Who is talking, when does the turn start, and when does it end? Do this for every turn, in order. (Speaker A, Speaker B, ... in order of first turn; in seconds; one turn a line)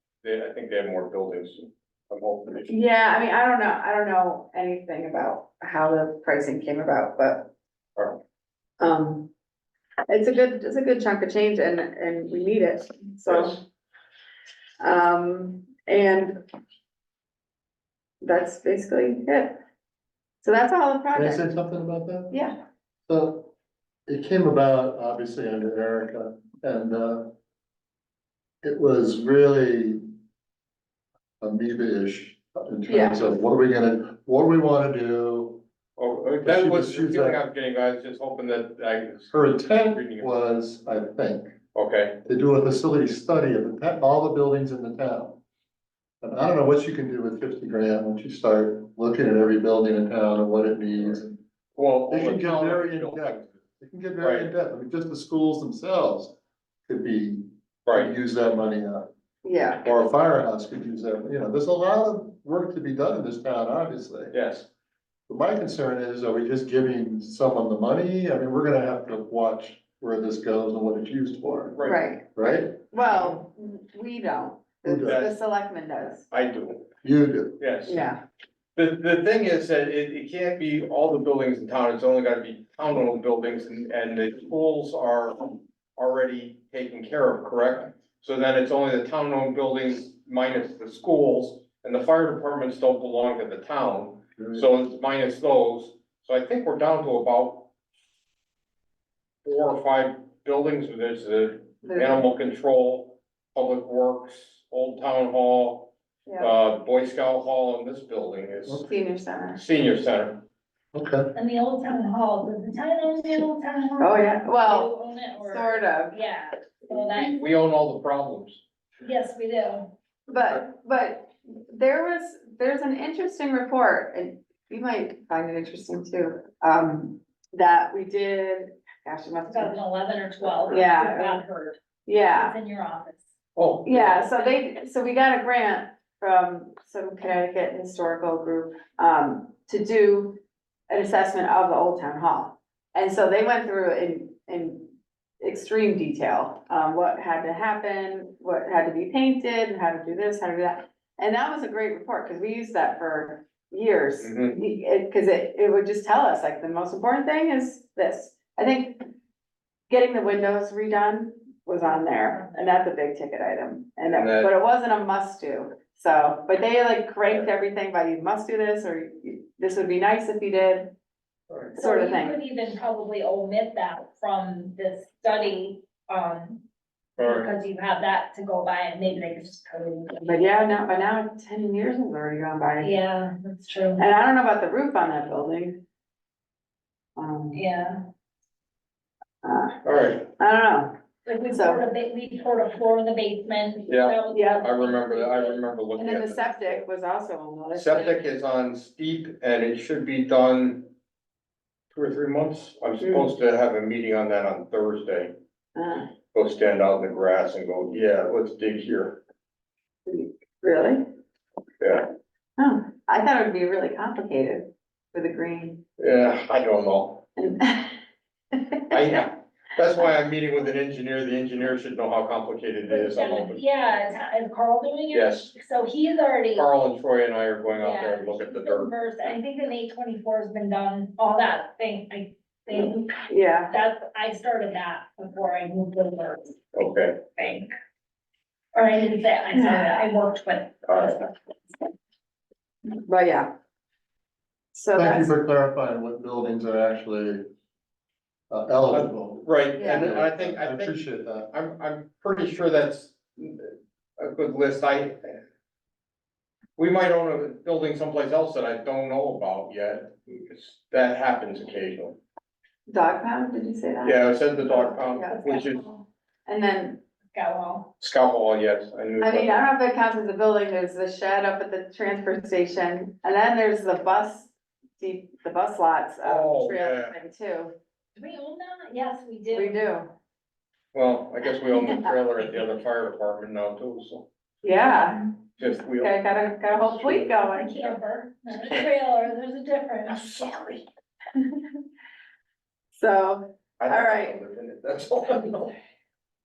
Speaker A: 0.2-2.7
Speaker B: 2.7-7.5
Speaker B: 8.8-9.3
Speaker B: 10.1-13.6
Speaker A: 13.3-13.6
Speaker B: 14.8-16.4
Speaker B: 18.2-19.6
Speaker B: 20.4-21.5
Speaker C: 21.1-22.4
Speaker C: 23.1-23.5
Speaker C: 24.1-27.3
Speaker C: 28.6-30.0
Speaker C: 31.4-35.6
Speaker B: 32.9-33.2
Speaker A: 36.0-40.3
Speaker C: 36.4-37.4
Speaker C: 39.3-41.5
Speaker A: 41.7-42.2
Speaker C: 42.2-45.4
Speaker C: 46.2-51.4
Speaker A: 51.8-53.6
Speaker C: 52.1-56.3
Speaker A: 54.2-54.5
Speaker C: 56.9-59.1
Speaker A: 57.9-58.1
Speaker B: 59.4-59.8
Speaker C: 59.8-64.3
Speaker A: 64.3-64.7
Speaker C: 65.3-72.8
Speaker A: 71.7-72.0
Speaker B: 71.8-72.3
Speaker B: 72.8-76.3
Speaker A: 73.1-73.4
Speaker C: 74.8-75.2
Speaker A: 75.0-75.3
Speaker A: 76.3-76.9
Speaker C: 77.0-78.1
Speaker A: 77.6-78.0
Speaker B: 77.9-78.2
Speaker A: 78.8-97.7
Speaker A: 99.4-108.8
Speaker B: 101.8-102.2
Speaker B: 106.3-106.5
Speaker B: 108.9-109.6
Speaker A: 109.6-110.4
Speaker C: 110.9-111.3
Speaker D: 111.3-117.4
Speaker B: 114.0-116.2
Speaker A: 117.1-118.6
Speaker D: 119.0-119.9
Speaker B: 120.3-129.8
Speaker D: 129.4-131.8
Speaker B: 130.7-131.4
Speaker B: 132.1-132.6
Speaker D: 132.3-133.2
Speaker A: 133.6-134.2
Speaker B: 133.8-159.0
Speaker A: 154.2-154.6
Speaker B: 159.9-170.9
Speaker A: 164.1-164.5
Speaker A: 171.5-171.8
Speaker B: 171.7-172.4
Speaker D: 171.8-176.6
Speaker A: 177.2-177.5
Speaker D: 177.2-180.6
Speaker B: 180.2-183.0
Speaker D: 182.8-184.1
Speaker B: 184.0-185.8
Speaker B: 187.2-187.6
Speaker D: 187.5-188.0
Speaker B: 189.4-189.8
Speaker A: 189.8-190.3
Speaker B: 190.3-190.9
Speaker D: 191.3-195.7
Speaker B: 191.5-191.8
Speaker A: 193.9-196.8
Speaker B: 194.3-194.6
Speaker B: 196.0-198.2
Speaker A: 197.7-200.9
Speaker A: 201.9-205.3
Speaker B: 203.0-203.3
Speaker B: 205.8-206.1
Speaker A: 206.3-209.2
Speaker B: 210.1-211.1
Speaker A: 211.8-212.1
Speaker B: 212.6-215.8
Speaker A: 216.0-217.2
Speaker B: 217.4-217.9
Speaker B: 218.5-218.8
Speaker A: 218.9-223.6
Speaker D: 222.9-226.7
Speaker A: 225.1-225.5
Speaker A: 226.6-228.9
Speaker D: 227.8-236.6
Speaker B: 232.8-233.7
Speaker A: 236.7-237.2
Speaker D: 237.3-237.7
Speaker D: 238.7-241.3
Speaker B: 239.5-240.0
Speaker A: 240.9-241.2
Speaker B: 243.0-243.5
Speaker B: 244.7-245.3
Speaker C: 244.9-247.4
Speaker C: 248.5-249.5
Speaker A: 248.9-255.4
Speaker B: 249.8-250.1
Speaker C: 250.0-251.5
Speaker A: 256.8-262.2
Speaker B: 262.9-265.8
Speaker A: 264.0-265.8
Speaker B: 266.5-267.0
Speaker D: 267.3-267.9
Speaker A: 268.0-269.5
Speaker B: 269.2-277.7
Speaker A: 276.2-277.1
Speaker D: 278.2-279.8
Speaker B: 279.5-280.1
Speaker A: 280.9-284.3
Speaker B: 284.6-285.2
Speaker A: 285.6-286.1
Speaker B: 286.0-287.9
Speaker A: 286.9-287.3
Speaker D: 287.5-290.3
Speaker A: 290.1-290.8
Speaker B: 292.9-294.4
Speaker A: 293.8-295.7